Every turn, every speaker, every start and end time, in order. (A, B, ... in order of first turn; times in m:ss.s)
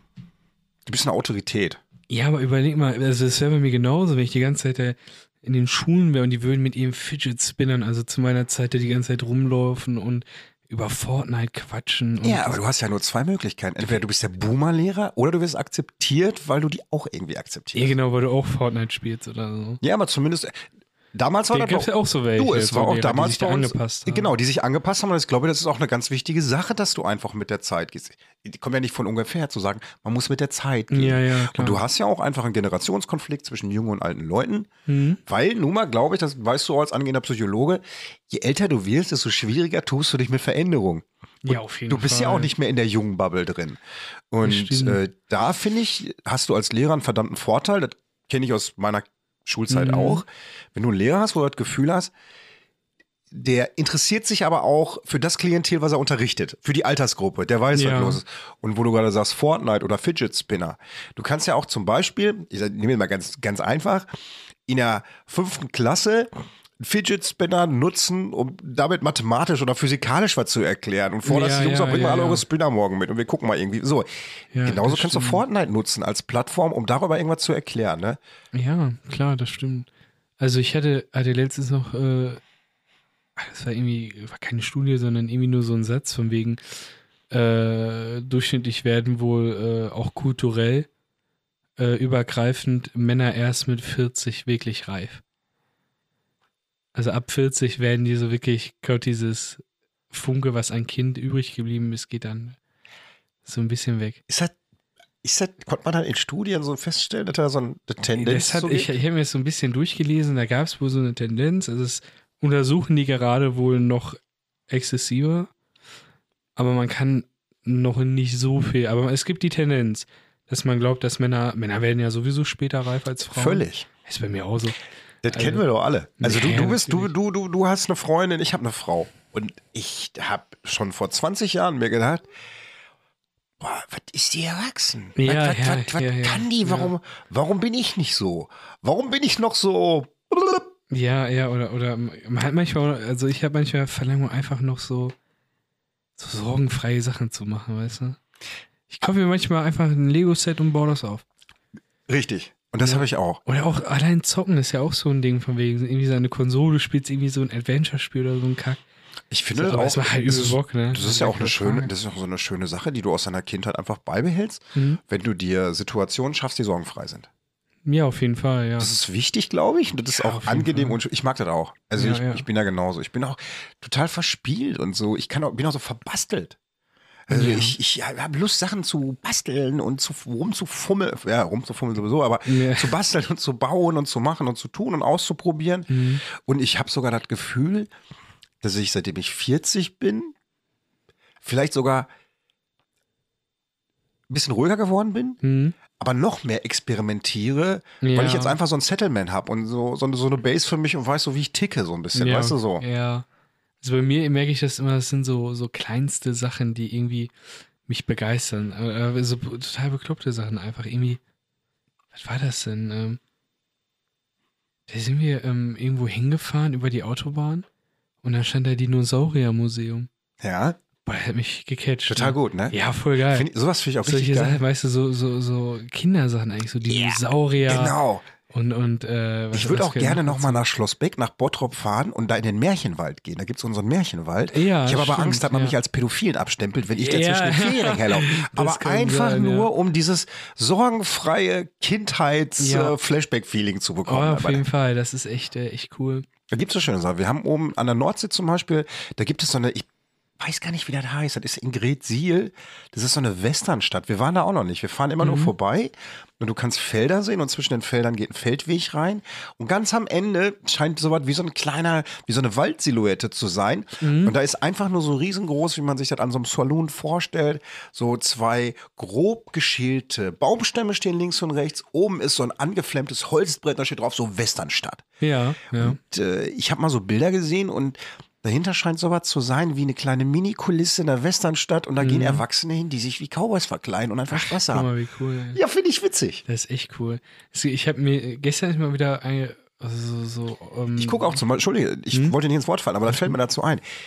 0:00.9-0:01.8 A
0:02.1-0:12.6 B
0:12.2-0:17.9 A
0:17.7-0:19.8 B
0:19.8-0:34.7 A
0:21.5-0:24.3 B
0:30.9-0:31.8 B
0:34.9-0:35.2 B
0:35.3-0:43.8 A
0:41.4-0:42.5 B
0:44.3-0:52.1 A
0:44.4-0:45.0 B
0:49.7-0:50.2 B
0:53.3-1:04.1 A
0:57.7-0:58.2 B
1:04.7-1:14.1 A
1:11.2-1:12.4 B
1:14.5-1:15.4 B
1:14.6-1:18.2 A
1:18.5-1:19.9 B
1:20.4-1:22.4 B
1:23.4-1:26.8 B
1:27.3-1:30.9 B
1:31.8-1:35.2 B
1:37.0-1:42.6 B
1:43.4-1:44.2 B
1:44.3-1:44.6 A
1:45.2-1:48.9 A
1:48.2-1:54.2 B
1:54.7-1:55.5 B
1:56.6-2:04.8 B
2:03.3-2:03.9 A
2:05.2-2:12.2 A
2:05.3-2:05.6 B
2:06.2-2:07.1 B
2:13.6-2:20.7 A
2:15.2-2:16.9 B
2:20.9-2:25.2 B
2:26.2-2:28.2 B
2:28.9-2:31.2 B
2:32.1-2:33.4 A
2:32.8-2:38.8 B
2:39.3-2:47.3 A
2:39.6-2:41.9 B
2:44.8-2:45.0 B
2:47.9-2:48.9 B
2:48.8-2:56.6 A
2:50.2-2:51.0 B
2:52.0-2:52.4 B
2:57.3-3:07.9 A
2:57.3-2:57.8 B
3:02.5-3:03.0 B
3:05.9-3:06.2 B
3:08.6-3:10.3 A
3:11.4-3:12.1 A
3:14.3-3:15.4 A
3:15.4-3:15.8 B
3:15.9-3:22.8 A
3:18.0-3:18.6 B
3:22.1-3:23.3 B
3:23.8-3:27.3 B
3:27.9-3:31.2 B
3:32.1-3:33.2 B
3:34.9-3:37.7 B
3:38.2-3:40.1 B
3:40.4-3:40.8 A
3:41.0-3:43.5 B
3:42.1-3:42.8 A
3:43.3-3:44.6 A
3:44.0-3:48.0 B
3:46.9-3:48.2 A
3:48.5-3:50.6 B
3:49.5-4:04.6 A
3:54.5-3:55.8 B
3:57.0-3:59.7 B
4:02.6-4:03.0 B
4:04.1-4:06.3 B
4:06.5-4:09.9 A
4:10.4-4:35.0 A
4:15.2-4:15.5 B
4:24.0-4:24.3 B
4:35.2-4:36.0 B
4:35.8-4:44.9 A
4:42.0-4:42.4 B
4:44.3-4:45.6 B
4:45.6-4:46.4 A
4:46.5-4:51.4 B
4:51.0-4:53.8 A
4:53.1-4:53.3 B